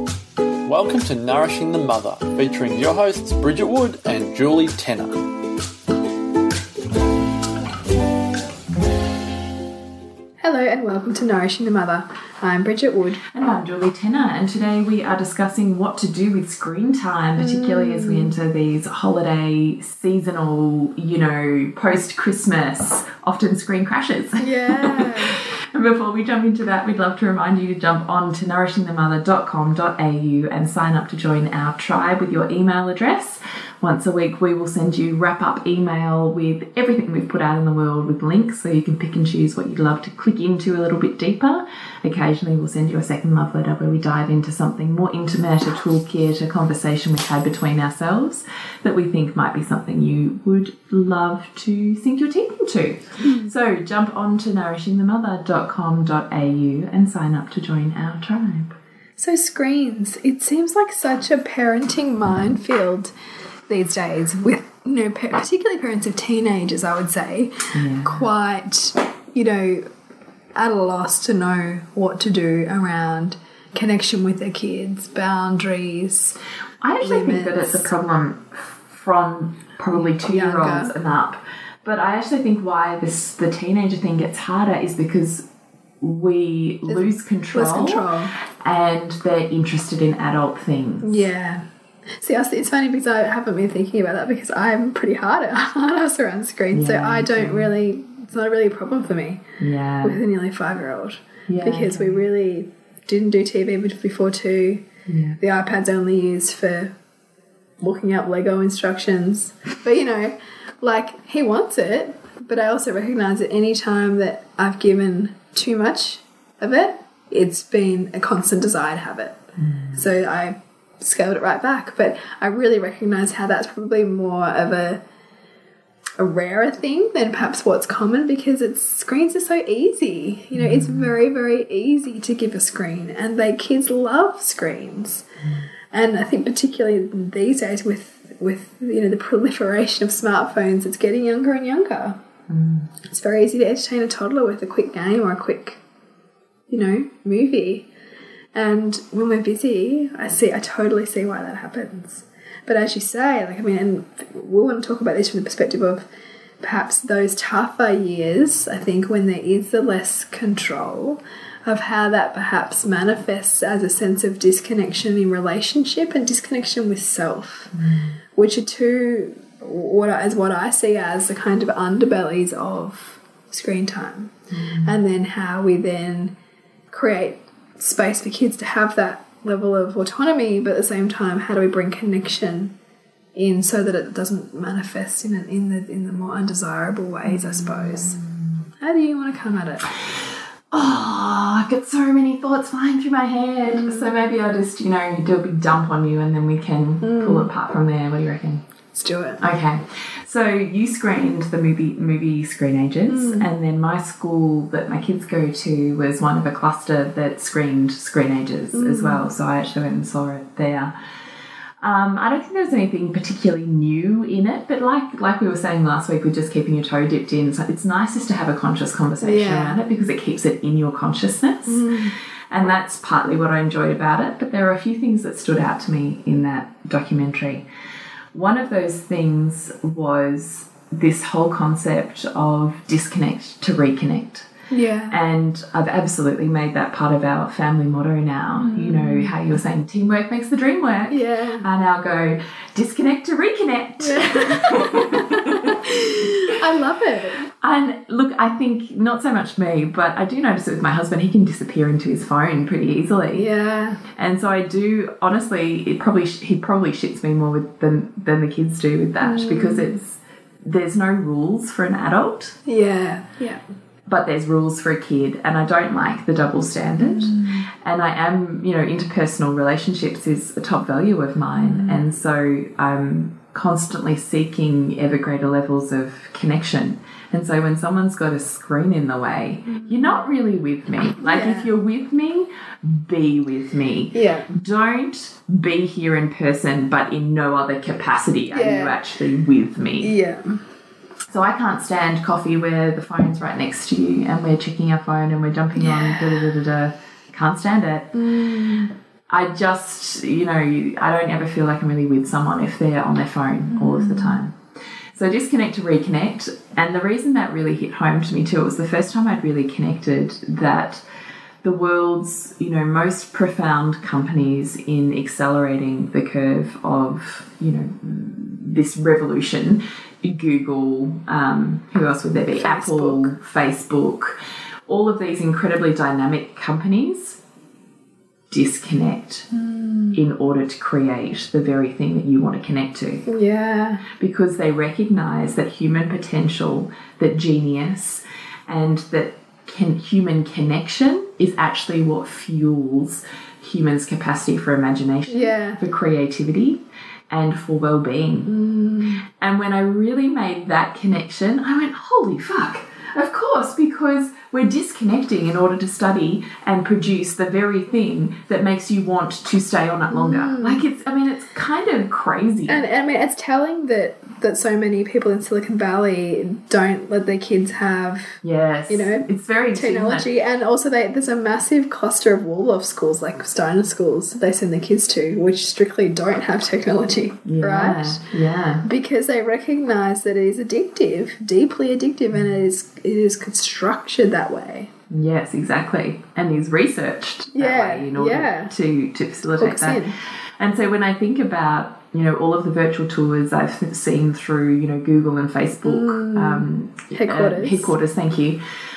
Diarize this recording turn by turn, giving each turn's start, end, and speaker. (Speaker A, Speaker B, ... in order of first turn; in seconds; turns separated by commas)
Speaker A: 0.7-5.2, Speaker B: 10.4-13.2, Speaker C: 13.3-58.7, Speaker B: 17.4-18.3, Speaker B: 24.4-25.4, Speaker B: 53.2-53.5, Speaker B: 59.2-63.1, Speaker B: 63.7-69.9, Speaker C: 67.7-68.2, Speaker B: 70.5-76.4, Speaker C: 76.8-85.5, Speaker B: 77.0-77.9, Speaker B: 80.2-80.9, Speaker C: 86.0-88.1, Speaker B: 86.9-88.3, Speaker C: 88.6-91.3, Speaker B: 91.0-99.4, Speaker C: 96.7-97.7, Speaker C: 99.6-100.2, Speaker B: 100.0-104.8, Speaker C: 101.5-102.2, Speaker C: 105.1-105.4, Speaker B: 105.4-106.9, Speaker B: 107.8-119.4, Speaker C: 119.6-120.0, Speaker B: 119.9-125.0, Speaker B: 126.2-135.3, Speaker C: 130.5-131.1, Speaker B: 135.9-142.2, Speaker C: 142.5-142.9, Speaker B: 143.0-145.8, Speaker B: 146.7-147.9, Speaker B: 148.5-156.0, Speaker B: 156.6-167.7, Speaker C: 167.7-168.1, Speaker B: 168.3-176.3, Speaker C: 174.5-174.9, Speaker B: 176.9-182.7, Speaker B: 183.3-188.2, Speaker C: 187.3-188.5, Speaker B: 188.8-189.9, Speaker C: 190.7-198.6, Speaker B: 193.7-194.1, Speaker B: 197.0-197.5, Speaker B: 198.9-199.4, Speaker C: 199.4-210.9, Speaker B: 203.1-203.5, Speaker B: 208.7-209.3, Speaker C: 211.8-222.0, Speaker B: 219.2-219.8, Speaker B: 221.7-222.1, Speaker C: 222.5-227.6, Speaker C: 228.3-234.5, Speaker B: 234.7-235.2, Speaker C: 235.1-245.8, Speaker B: 238.5-239.3, Speaker B: 241.1-241.7, Speaker B: 244.0-247.4, Speaker C: 247.5-253.5, Speaker B: 253.3-254.0, Speaker C: 254.1-262.6, Speaker B: 259.2-260.0, Speaker B: 262.6-263.6, Speaker C: 264.1-290.1, Speaker B: 267.0-267.7, Speaker B: 271.6-272.0, Speaker B: 279.7-280.2, Speaker B: 281.2-281.7, Speaker B: 284.1-284.5, Speaker B: 288.5-289.0, Speaker B: 290.0-290.6, Speaker C: 291.3-298.1, Speaker B: 295.8-296.5, Speaker B: 298.1-298.9, Speaker C: 299.3-304.6, Speaker B: 303.7-304.4, Speaker C: 305.1-311.0, Speaker C: 311.6-327.4, Speaker B: 322.5-323.3, Speaker C: 328.5-329.4, Speaker B: 329.5-330.2, Speaker C: 330.1-333.2, Speaker B: 333.2-334.0, Speaker C: 334.1-348.5, Speaker B: 345.3-345.8, Speaker B: 348.4-349.2, Speaker C: 349.3-362.8, Speaker B: 360.1-360.8, Speaker B: 362.7-378.2, Speaker C: 368.4-370.3, Speaker C: 377.4-378.9, Speaker B: 378.8-384.9, Speaker C: 385.1-390.1, Speaker B: 387.6-388.7, Speaker B: 389.6-390.1, Speaker C: 390.6-398.6, Speaker B: 395.8-397.9